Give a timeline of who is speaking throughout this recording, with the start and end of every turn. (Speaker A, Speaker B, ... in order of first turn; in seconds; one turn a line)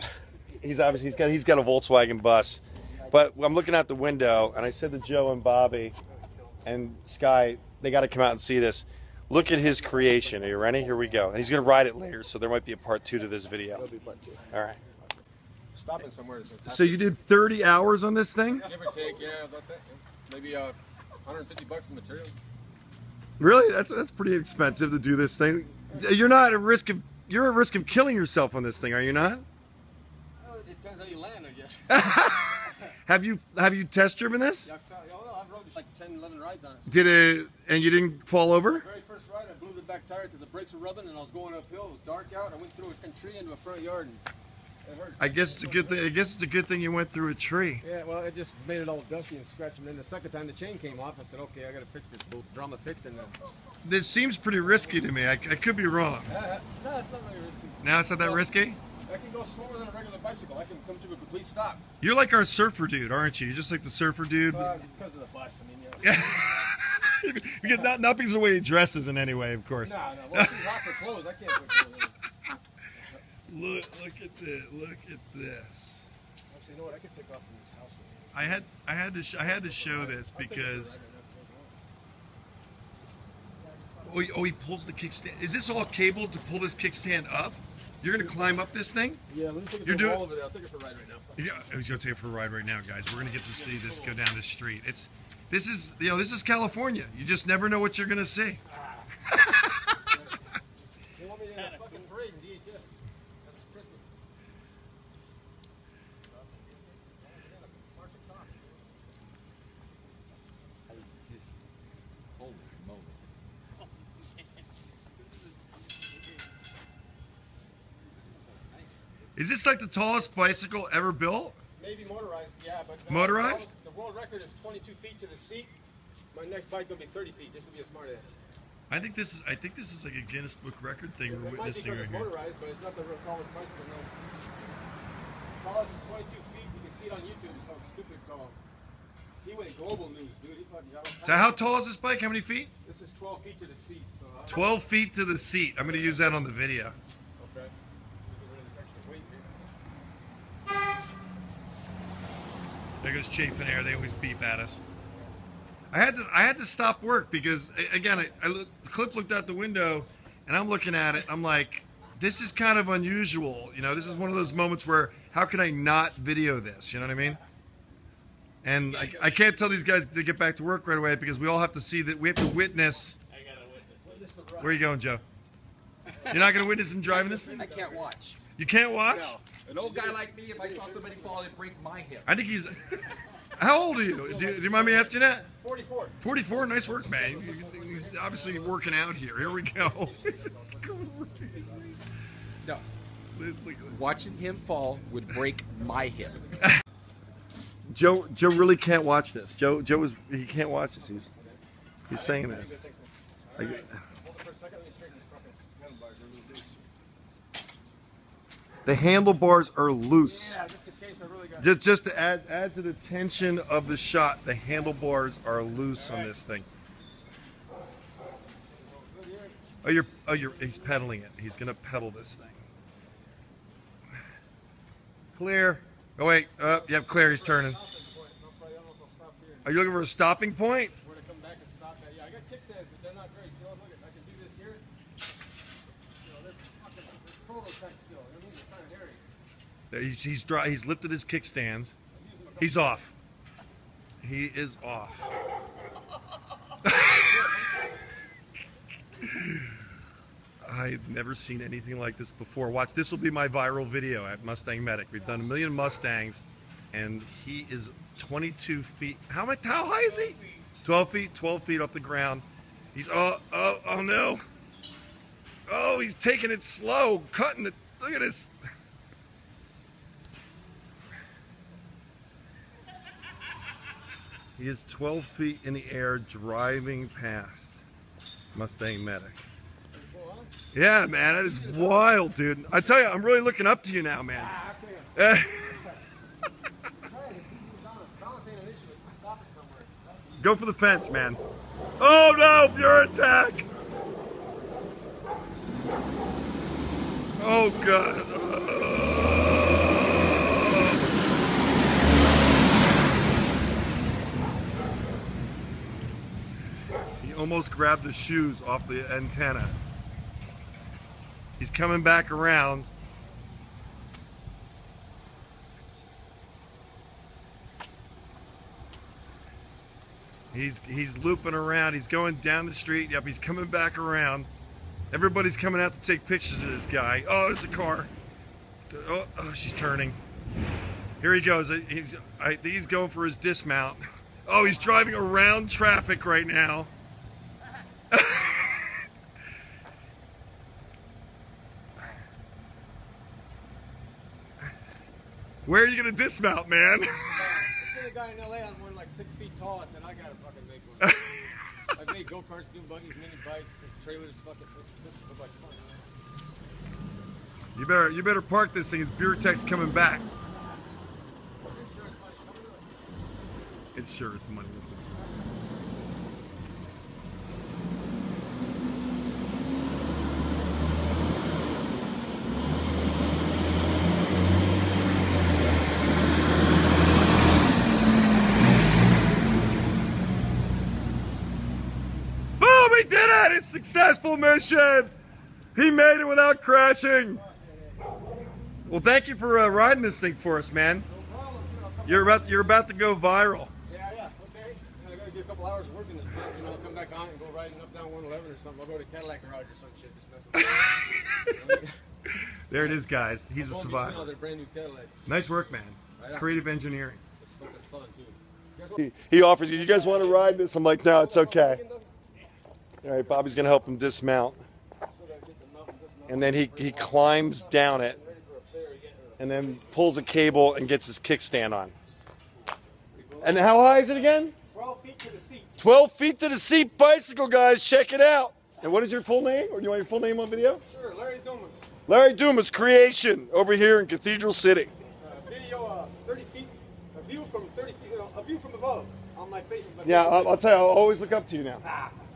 Speaker A: 0.6-6.0
Speaker A: 6.7-13.9
Speaker B: 9.4-11.1
Speaker B: 13.7-14.5
Speaker A: 14.5-14.8
Speaker B: 15.7-17.1
Speaker A: 16.6-18.7
Speaker B: 18.6-22.4
Speaker A: 23.4-29.4
Speaker B: 25.9-26.2
Speaker B: 30.4-31.9
Speaker A: 31.9-34.7
Speaker B: 34.6-37.0
Speaker A: 36.9-38.8
Speaker B: 38.7-44.2
Speaker B: 44.8-46.1
Speaker A: 45.2-47.8
Speaker B: 47.8-53.4
Speaker A: 53.8-56.3
Speaker B: 54.7-55.0
Speaker B: 56.3-58.5
Speaker A: 57.8-58.8
Speaker B: 59.0-61.8
Speaker A: 62.0-64.8
Speaker B: 64.5-66.7
Speaker A: 66.0-70.9
Speaker B: 67.7-67.9
Speaker B: 69.8-72.2
Speaker B: 72.9-73.2
Speaker A: 73.5-76.1
Speaker B: 76.5-78.7
Speaker A: 78.3-81.0
Speaker B: 79.4-81.8
Speaker A: 84.0-89.2
Speaker B: 88.2-88.6
Speaker B: 89.3-91.7
Speaker A: 89.8-90.2
Speaker A: 91.4-98.6
Speaker B: 93.3-94.2
Speaker A: 99.3-99.7
Speaker B: 100.0-100.5
Speaker B: 101.1-104.1
Speaker B: 106.5-108.9
Speaker C: 110.9-111.5
Speaker C: 112.3-113.2
Speaker A: 119.3-121.6
Speaker B: 121.8-125.7
Speaker A: 123.1-123.7
Speaker B: 126.3-128.3
Speaker A: 128.9-132.3
Speaker B: 131.2-134.2
Speaker B: 135.6-138.6
Speaker B: 139.4-141.8
Speaker A: 141.2-142.7
Speaker B: 142.8-144.8
Speaker A: 144.5-146.9
Speaker B: 145.8-146.4
Speaker B: 147.4-149.7
Speaker A: 153.0-154.8
Speaker A: 155.9-167.4
Speaker A: 168.6-173.2
Speaker B: 174.0-174.8
Speaker A: 174.6-175.2
Speaker B: 176.1-178.1
Speaker A: 176.3-177.7
Speaker C: 177.5-178.4
Speaker A: 178.6-179.4
Speaker B: 179.0-181.5
Speaker C: 179.7-182.3
Speaker A: 182.2-185.4
Speaker B: 184.1-192.0
Speaker A: 186.2-192.0
Speaker A: 193.3-194.0
Speaker C: 193.9-196.4
Speaker B: 195.8-196.7
Speaker A: 197.9-201.3
Speaker B: 201.0-206.8
Speaker A: 202.1-202.8
Speaker A: 203.6-203.9
Speaker A: 208.8-210.6
Speaker B: 210.2-211.8
Speaker A: 211.6-216.7
Speaker B: 215.9-216.4
Speaker B: 218.7-219.6
Speaker A: 219.8-222.6
Speaker B: 220.3-221.1
Speaker A: 225.3-227.8
Speaker B: 226.6-229.9
Speaker A: 229.6-230.9
Speaker B: 231.0-234.8
Speaker B: 236.1-239.2
Speaker A: 239.9-241.9
Speaker B: 242.1-243.1
Speaker A: 242.6-243.1
Speaker A: 244.2-245.2
Speaker A: 246.8-247.2
Speaker B: 247.0-248.0
Speaker A: 249.3-249.8
Speaker A: 250.6-264.4
Speaker A: 265.7-268.5
Speaker A: 274.6-277.8
Speaker A: 278.5-279.4
Speaker B: 279.9-282.2
Speaker A: 280.7-284.5
Speaker B: 284.3-285.9
Speaker A: 285.1-285.8
Speaker B: 287.0-290.5
Speaker A: 290.4-291.4
Speaker A: 292.0-293.6
Speaker A: 297.4-301.4
Speaker A: 307.2-309.8
Speaker A: 311.6-312.9
Speaker A: 320.5-324.5
Speaker A: 325.1-328.1
Speaker A: 328.8-330.2
Speaker A: 331.2-336.9
Speaker A: 338.1-338.9
Speaker A: 345.6-347.3
Speaker B: 347.3-351.3
Speaker A: 351.0-351.4
Speaker B: 351.9-356.1
Speaker A: 357.7-360.3
Speaker B: 361.6-363.0
Speaker A: 363.9-365.2
Speaker A: 382.6-385.1
Speaker A: 385.7-387.4
Speaker B: 387.3-388.1
Speaker A: 388.9-391.1
Speaker B: 391.1-392.8
Speaker A: 392.1-393.7
Speaker B: 393.9-402.0
Speaker A: 400.7-401.7
Speaker A: 402.4-404.3
Speaker B: 402.7-403.0
Speaker B: 403.6-405.3
Speaker A: 405.2-407.2
Speaker B: 406.1-406.6
Speaker B: 407.4-409.0
Speaker A: 409.0-411.8
Speaker B: 409.6-412.1
Speaker A: 413.0-414.6
Speaker B: 413.1-413.9
Speaker B: 415.1-420.0
Speaker A: 416.3-418.2
Speaker A: 419.4-421.9
Speaker B: 423.1-425.8
Speaker A: 423.4-424.5
Speaker A: 425.8-430.8
Speaker B: 430.8-431.9
Speaker A: 432.1-434.9
Speaker B: 435.2-440.6
Speaker A: 440.0-441.8